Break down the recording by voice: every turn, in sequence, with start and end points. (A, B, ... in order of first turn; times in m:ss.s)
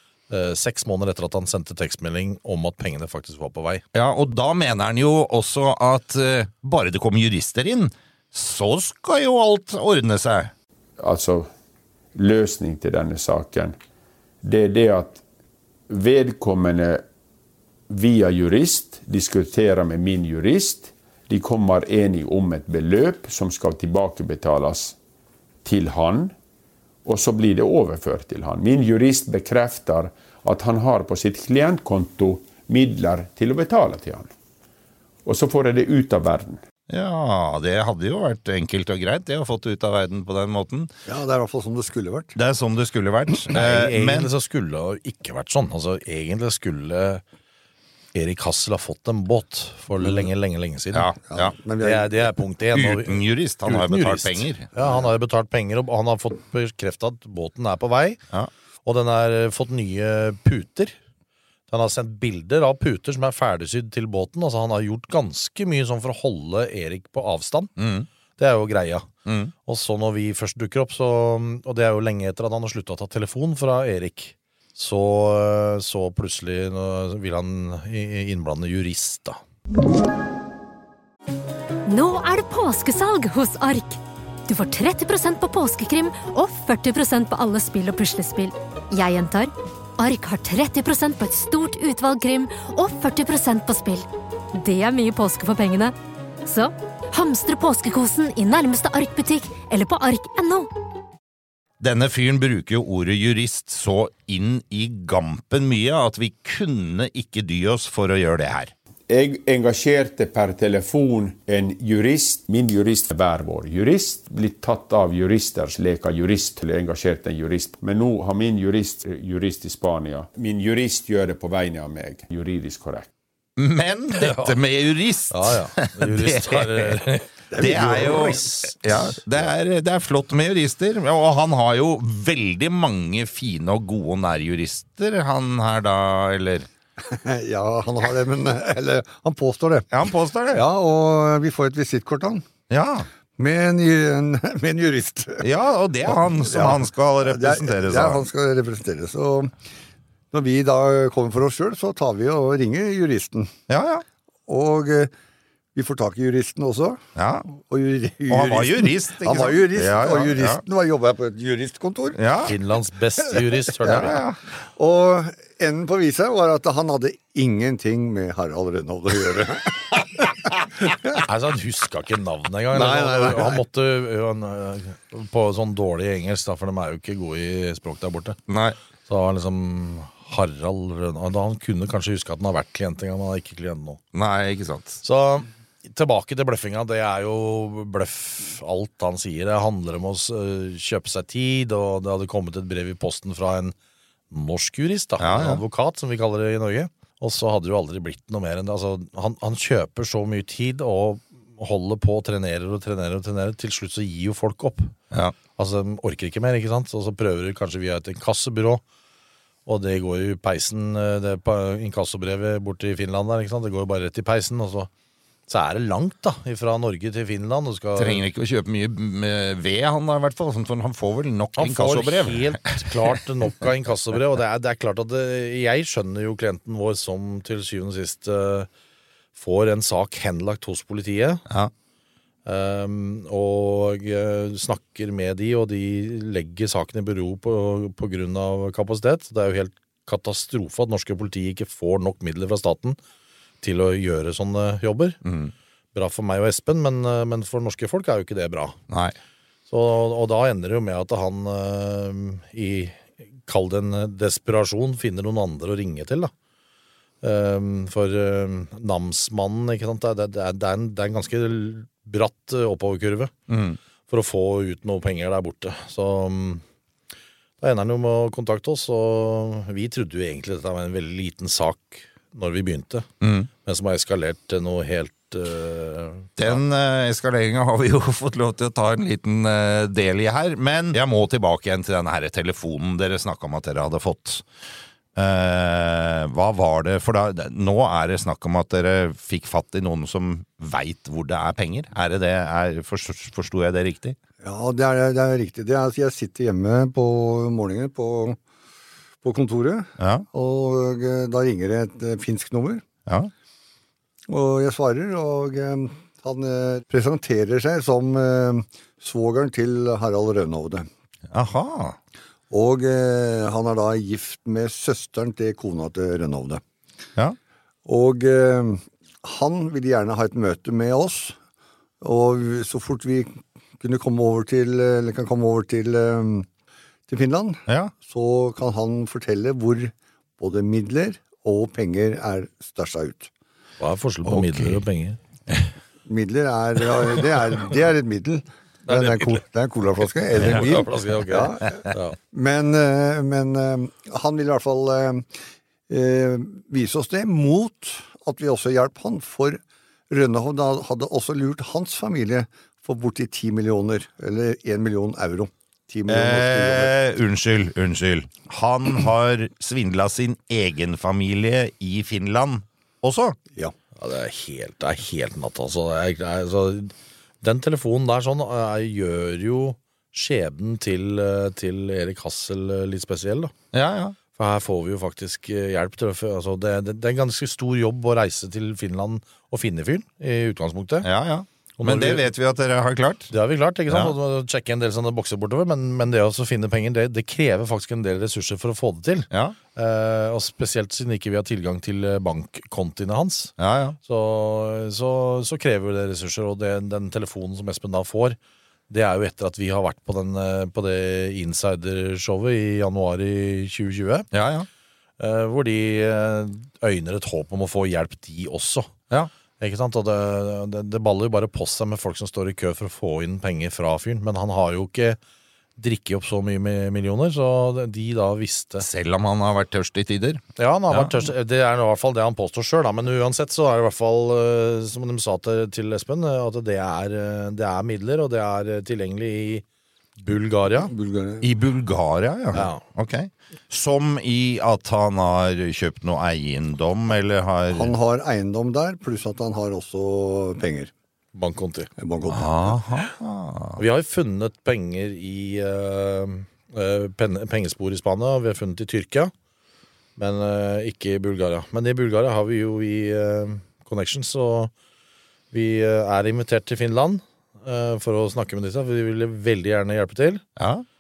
0:00.3-0:03.8 A
0:03.9-0:10.5 B
0:11.0-0:11.5 C
0:12.2-0:13.8 C
0:14.4-0:15.2 C
0:15.9-0:17.0 C
0:17.9-0:25.0 C
0:25.6-0:26.3 C
0:27.0-0:34.3 C
0:35.2-0:36.6 C
0:36.9-0:40.9 B
0:41.1-0:42.4 D
0:42.4-0:44.3 B
0:43.5-0:47.2 A
0:48.1-0:51.1 A
0:50.9-0:51.5 B
0:51.3-0:52.1 D
0:51.8-0:58.2 A
0:52.7-0:54.7 B
0:54.8-0:55.1 D
0:58.8-1:01.0 A
1:01.7-1:07.7 A
1:07.8-1:08.1 B
1:08.4-1:09.1 A
1:09.3-1:09.5 B
1:09.6-1:19.4 A
1:21.9-1:40.7 E
1:41.8-1:48.7 B
1:49.1-2:03.1 C
2:03.6-2:07.0 B
2:04.2-2:04.6 A
2:05.3-2:08.8 A
2:07.5-2:08.4 D
2:07.6-2:16.7 B
2:17.0-2:19.9 D
2:19.9-2:20.6 B
2:20.5-2:22.5 D
2:22.7-2:23.1 B
2:23.4-2:25.5 D
2:25.4-2:28.2 B
2:26.0-2:29.5 D
2:30.3-2:33.5 D
2:33.7-2:34.0 B
2:34.5-2:35.1 D
2:35.8-2:42.2 D
2:37.2-2:37.5 B
2:38.3-2:40.6 B
2:42.2-2:42.5 B
2:42.5-2:44.2 A
2:43.8-2:44.4 B
2:44.8-2:50.5 D
2:51.2-2:58.4 A
2:52.7-2:53.6 D
2:58.5-2:58.8 B
2:59.1-3:04.0 A
3:04.1-3:05.0 B
3:05.0-3:13.7 A
3:14.3-3:24.9 A
3:15.2-3:15.6 B
3:25.6-3:28.8 A
3:29.7-3:34.9 A
3:35.5-3:38.2 A
3:38.0-3:43.2 B
3:41.6-3:48.7 A
3:49.4-3:51.4 A
3:52.5-4:03.0 A
4:03.6-4:05.2 A
4:05.2-4:05.5 B
4:05.9-4:08.8 A
4:08.9-4:09.2 B
4:09.7-4:16.3 A
4:17.2-4:23.3 A
4:23.5-4:23.8 B
4:24.1-4:26.6 A
4:27.6-4:33.1 A
4:33.2-4:33.5 B
4:33.6-4:36.6 A
4:36.4-4:44.4 B
4:45.2-4:54.2 B
4:54.4-4:58.4 D
4:59.2-5:02.8 D
5:00.0-5:00.2 B
5:04.3-5:10.9 D
5:11.3-5:12.0 B
5:12.5-5:16.6 D
5:17.9-5:21.4 D
5:22.0-5:26.5 D
5:27.1-5:33.3 D
5:27.7-5:27.9 B
5:33.8-5:35.2 A
5:34.3-5:34.8 B
5:36.1-5:45.3 D
5:38.9-5:39.4 A
5:40.3-5:42.2 A
5:45.9-5:56.9 D
5:56.1-6:03.4 B
6:04.0-6:13.5 A
6:13.7-6:14.2 B
6:14.4-6:21.1 A
6:21.0-6:23.3 B
6:21.8-6:22.2 A
6:23.3-6:38.4 A
6:23.9-6:24.2 B
6:29.3-6:29.6 B
6:33.6-6:34.0 B
6:38.9-6:44.3 A
6:44.3-6:44.7 B
6:45.2-6:48.9 A
6:49.6-6:55.2 A
6:55.8-6:58.8 A
6:58.8-7:01.3 B
7:00.6-7:09.6 A
7:10.2-7:10.9 A
7:10.8-7:11.5 D
7:11.4-7:17.9 B
7:12.5-7:12.8 A
7:17.7-7:20.9 D
7:21.4-7:21.9 A
7:22.0-7:22.8 D
7:22.3-7:23.8 B
7:23.8-7:29.3 A
7:30.2-7:34.7 A
7:35.5-7:40.4 A
7:40.6-7:40.8 B